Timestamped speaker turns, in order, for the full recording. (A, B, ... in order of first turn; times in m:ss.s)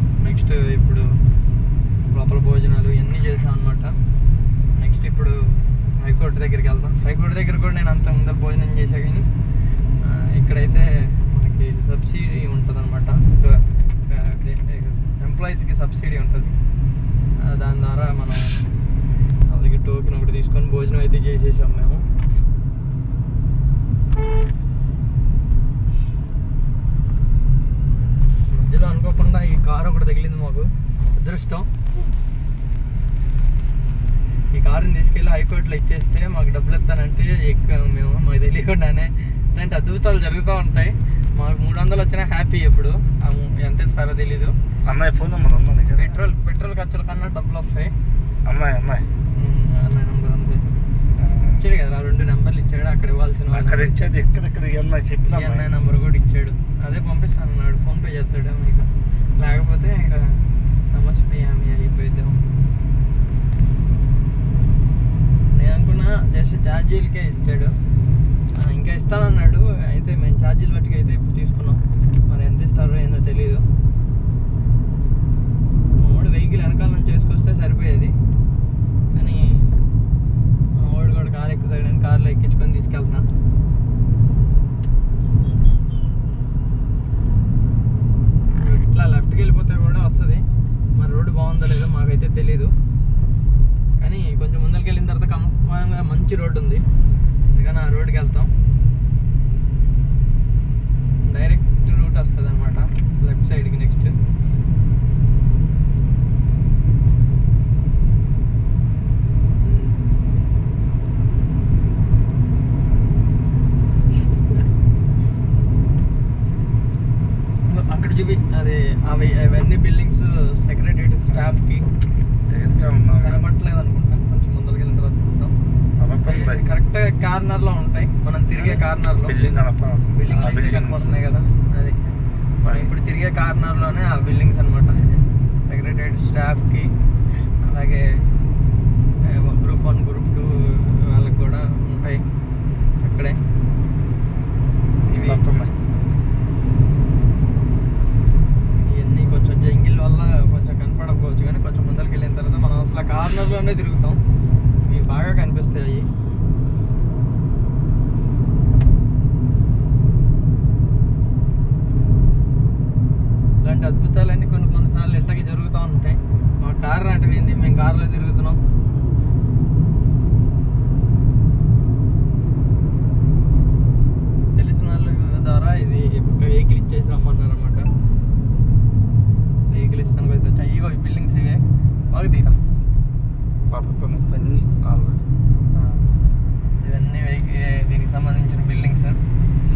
0:00.2-0:01.1 A
0:02.1-0:04.0 A
0:04.7-0:05.4 A
0:06.0-0:09.2 A
0:10.0-0:16.6 A
0:17.4-0:18.6 A
0:19.5-0:22.0 A
0:28.5-0:31.7 A
0:34.5-0:44.5 A
0:44.8-0:46.2 B
0:45.9-0:47.9 A
0:48.4-0:49.0 B
0:49.3-0:50.7 A
0:51.2-0:51.6 B
0:51.6-0:53.9 A
0:53.5-0:55.7 B
0:55.3-1:02.4 A
1:05.5-1:07.7 A
1:08.6-1:13.6 A
1:16.0-1:18.1 A
1:19.1-1:19.7 A
1:20.8-1:23.3 A
1:28.6-1:30.4 A
1:31.0-1:32.7 A
1:34.0-1:36.8 A
1:37.5-1:38.5 A
1:41.3-1:44.2 A
1:57.7-2:01.9 A
2:02.5-2:03.4 B
2:03.2-2:05.5 A
2:06.0-2:06.7 B
2:06.1-2:09.4 A
2:08.5-2:11.1 B
2:10.1-2:12.1 A
2:12.6-2:16.9 A
2:12.6-2:12.9 B
2:17.6-2:18.3 A
2:19.3-2:22.2 A
2:23.0-2:23.4 A
2:25.0-2:25.4 A
2:25.2-2:25.7 B
2:28.7-2:34.2 A
2:34.9-2:36.1 A
2:43.6-2:48.6 A
2:54.5-2:57.9 A
2:59.7-3:02.6 A
3:03.7-3:05.2 B
3:05.7-3:06.0 A
3:06.8-3:09.2 A